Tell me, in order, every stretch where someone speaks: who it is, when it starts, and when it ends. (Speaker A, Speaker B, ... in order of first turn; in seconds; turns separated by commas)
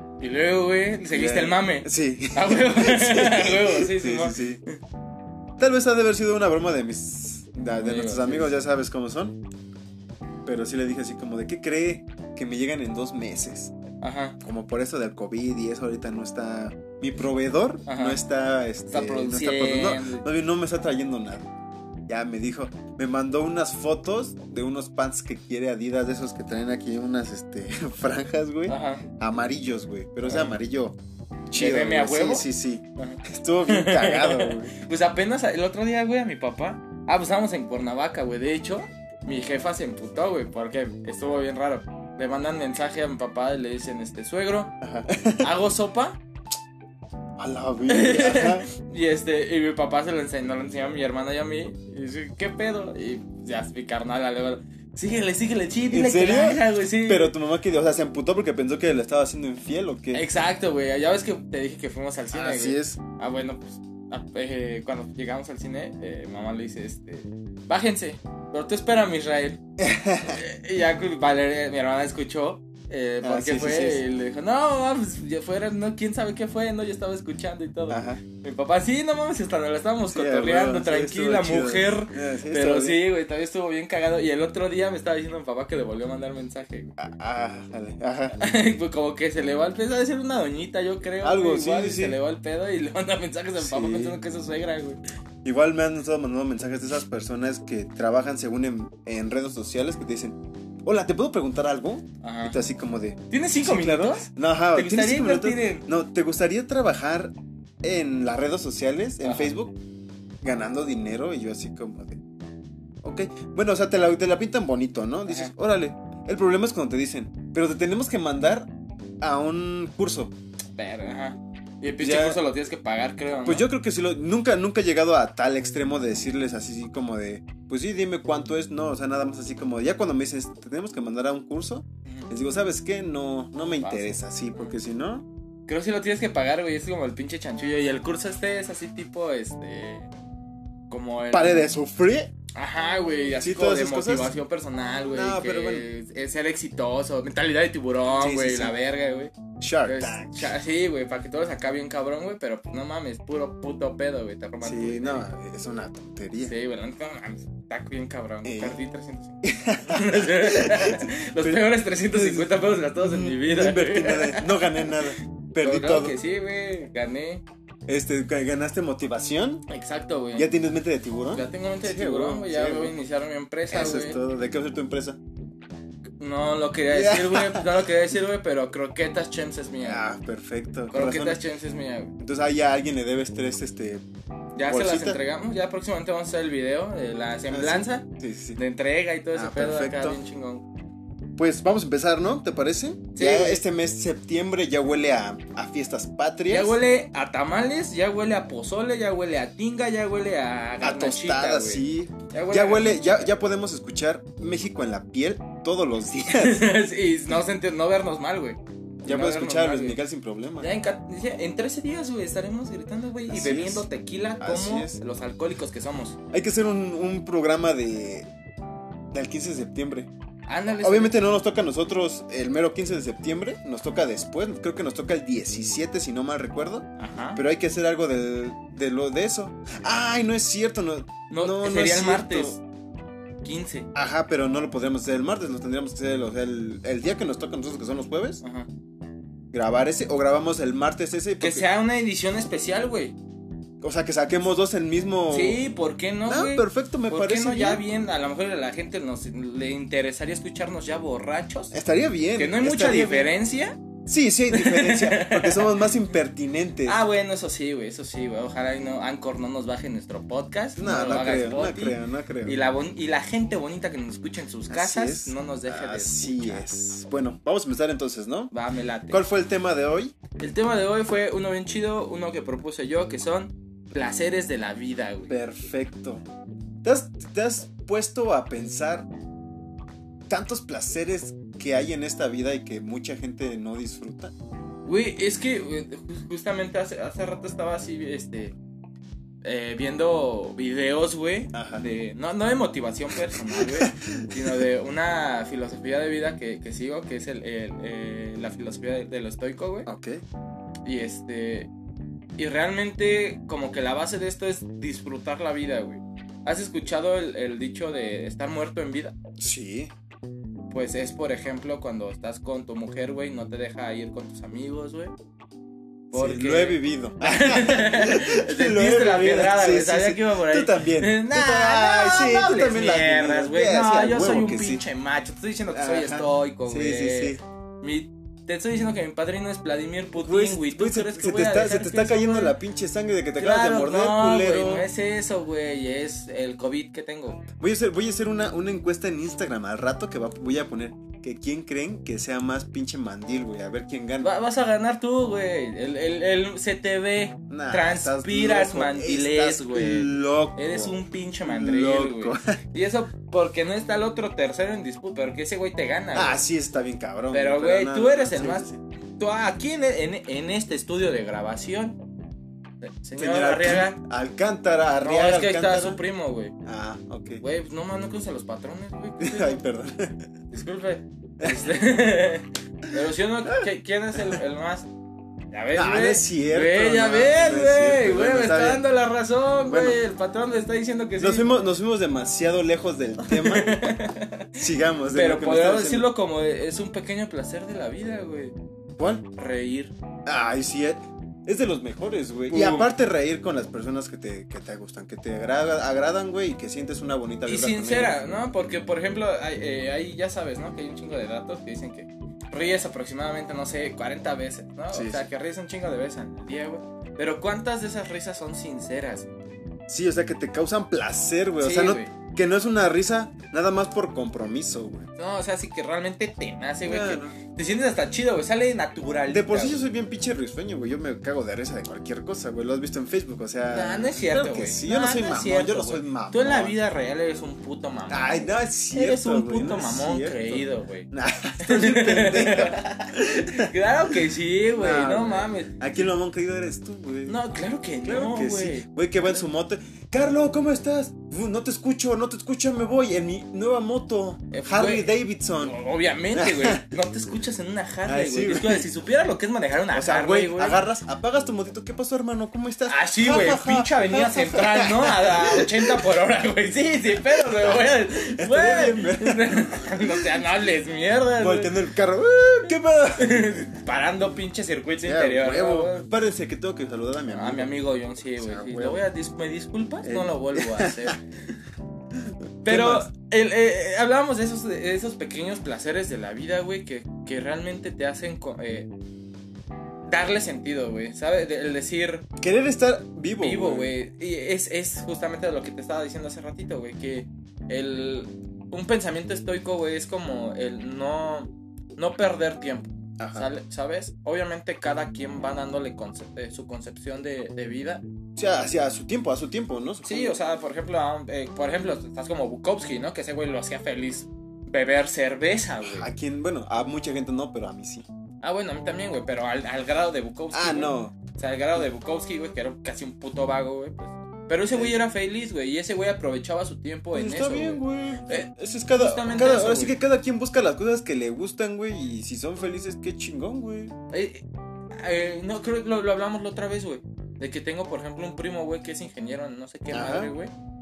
Speaker A: 0.2-4.3, Speaker B: 1.1-4.6, Speaker B: 5.6-9.4, Speaker A: 7.8-8.5, Speaker B: 10.4-13.7, Speaker A: 14.0-14.4, Speaker B: 14.4-21.5, Speaker A: 17.9-18.2, Speaker A: 18.9-20.2, Speaker B: 22.1-31.0, Speaker A: 28.7-29.0, Speaker A: 30.2-30.6, Speaker B: 31.5-34.7, Speaker A: 31.5-32.5, Speaker A: 33.0-44.7, Speaker B: 44.8-45.5, Speaker A: 45.4-46.2, Speaker B: 47.4-48.7, Speaker A: 47.9-57.3, Speaker B: 55.9-60.2, Speaker A: 60.1-69.6, Speaker B: 62.3-63.0, Speaker B: 69.8-70.4, Speaker A: 70.2-86.9, Speaker B: 73.2-74.0, Speaker B: 77.9-78.2, Speaker B: 80.1-83.0, Speaker B: 87.0-88.4, Speaker A: 88.4-95.0, Speaker B: 91.2-92.2, Speaker B: 93.6-94.2, Speaker B: 95.4-109.7, Speaker A: 102.2-102.6, Speaker A: 103.3-105.8, Speaker A: 109.2-109.6, Speaker B: 110.4-112.2, Speaker B: 113.0-118.7, Speaker A: 115.2-115.5, Speaker B: 119.2-120.3, Speaker A: 120.8-123.7, Speaker B: 122.0-122.4, Speaker B: 123.5-135.2, Speaker A: 133.8-134.8, Speaker A: 135.7-140.1, Speaker A: 140.9-141.7, Speaker B: 141.3-142.3, Speaker A: 142.5-149.3, Speaker B: 143.4-144.3, Speaker B: 145.1-145.8, Speaker B: 148.1-148.7, Speaker B: 149.6-150.5, Speaker A: 149.8-155.2, Speaker B: 154.6-156.5, Speaker A: 156.4-165.0, Speaker B: 158.4-158.8, Speaker B: 159.4-166.2, Speaker A: 165.6-167.4, Speaker B: 167.9-169.6, Speaker A: 169.7-170.5, Speaker B: 170.3-172.9, Speaker A: 171.3-174.2, Speaker B: 173.7-175.2, Speaker A: 176.2-180.0, Speaker B: 176.9-177.7, Speaker B: 179.8-181.4, Speaker A: 180.9-182.1, Speaker B: 182.2-184.0, Speaker A: 184.6-190.6, Speaker B: 184.6-185.2, Speaker B: 187.5-188.6, Speaker B: 189.3-190.2, Speaker B: 191.4-196.8, Speaker A: 193.1-193.6, Speaker A: 196.5-203.3, Speaker B: 200.8-206.7, Speaker A: 206.3-210.0, Speaker B: 209.0-210.7, Speaker A: 210.6-216.2, Speaker B: 213.3-213.8, Speaker B: 214.4-215.0, Speaker B: 216.3-218.3, Speaker B: 219.1-220.1, Speaker A: 220.4-221.2, Speaker B: 220.8-232.6, Speaker A: 227.0-227.4, Speaker A: 231.3-232.6, Speaker A: 233.4-233.9, Speaker B: 233.9-238.4, Speaker A: 238.4-238.7, Speaker B: 239.5-241.6, Speaker A: 241.4-243.1, Speaker B: 243.8-245.6, Speaker A: 245.3-251.8, Speaker B: 246.2-247.8, Speaker B: 251.7-253.3, Speaker A: 252.3-253.8, Speaker B: 254.1-257.0, Speaker A: 254.5-255.9, Speaker A: 256.8-266.6, Speaker B: 260.8-262.6, Speaker B: 264.7-268.5, Speaker A: 268.5-269.2, Speaker B: 269.1-270.1, Speaker A: 270.4-275.3, Speaker B: 275.3-276.2, Speaker B: 276.8-279.1, Speaker B: 280.3-284.3, Speaker A: 284.9-288.6, Speaker A: 289.4-299.9, Speaker B: 291.5-291.9, Speaker B: 293.3-294.4, Speaker B: 299.9-300.2, Speaker A: 300.8-301.7, Speaker A: 302.4-309.1, Speaker B: 309.4-309.9, Speaker A: 310.7-315.1, Speaker B: 316.1-324.8, Speaker A: 316.1-332.5, Speaker B: 325.7-327.4, Speaker B: 330.2-334.9, Speaker A: 333.4-337.4, Speaker B: 337.5-344.3, Speaker A: 344.2-356.4, Speaker B: 347.5-352.6, Speaker B: 356.1-358.8, Speaker A: 357.3-358.7, Speaker A: 359.2-362.0, Speaker A: 362.8-364.0, Speaker B: 363.1-366.0, Speaker A: 365.0-366.5, Speaker B: 366.6-367.4, Speaker A: 367.4-369.6, Speaker B: 369.2-370.3, Speaker A: 370.5-374.9, Speaker B: 371.4-371.8, Speaker A: 375.5-381.5, Speaker B: 375.7-378.8, Speaker B: 379.6-380.0, Speaker B: 381.2-383.8, Speaker A: 383.2-384.6, Speaker B: 384.6-386.1, Speaker A: 385.1-388.5, Speaker B: 389.0-389.2, Speaker A: 389.2-389.9, Speaker B: 390.2-398.4, Speaker A: 392.5-392.9, Speaker A: 397.4-409.3, Speaker B: 404.9-405.2, Speaker B: 409.9-415.1, Speaker A: 411.6-412.1, Speaker A: 415.2-419.8, Speaker B: 416.8-417.4, Speaker B: 419.3-426.8, Speaker A: 423.7-431.1, Speaker B: 428.1-433.7, Speaker A: 431.6-435.8, Speaker B: 434.7-437.4, Speaker A: 437.2-438.9, Speaker B: 438.0-445.8, Speaker A: 444.5-450.8, Speaker B: 446.3-446.9, Speaker B: 448.1-448.9, Speaker B: 449.9-456.0, Speaker A: 452.9-461.7, Speaker B: 457.3-460.3, Speaker B: 461.4-463.6, Speaker A: 463.1-466.1, Speaker B: 465.0-467.7, Speaker A: 467.3-471.2, Speaker B: 468.4-469.0, Speaker B: 470.0-471.2, Speaker B: 472.2-473.1, Speaker A: 472.6-478.9, Speaker A: 480.1-482.2, Speaker B: 482.4-483.9, Speaker A: 483.4-498.0, Speaker B: 493.2-493.5, Speaker B: 498.4-500.4, Speaker A: 500.0-506.1, Speaker B: 505.8-508.1, Speaker A: 508.4-520.0, Speaker B: 510.5-511.1, Speaker B: 514.7-515.0, Speaker B: 517.1-523.9, Speaker A: 524.1-524.4, Speaker A: 525.0-530.5, Speaker B: 529.9-530.3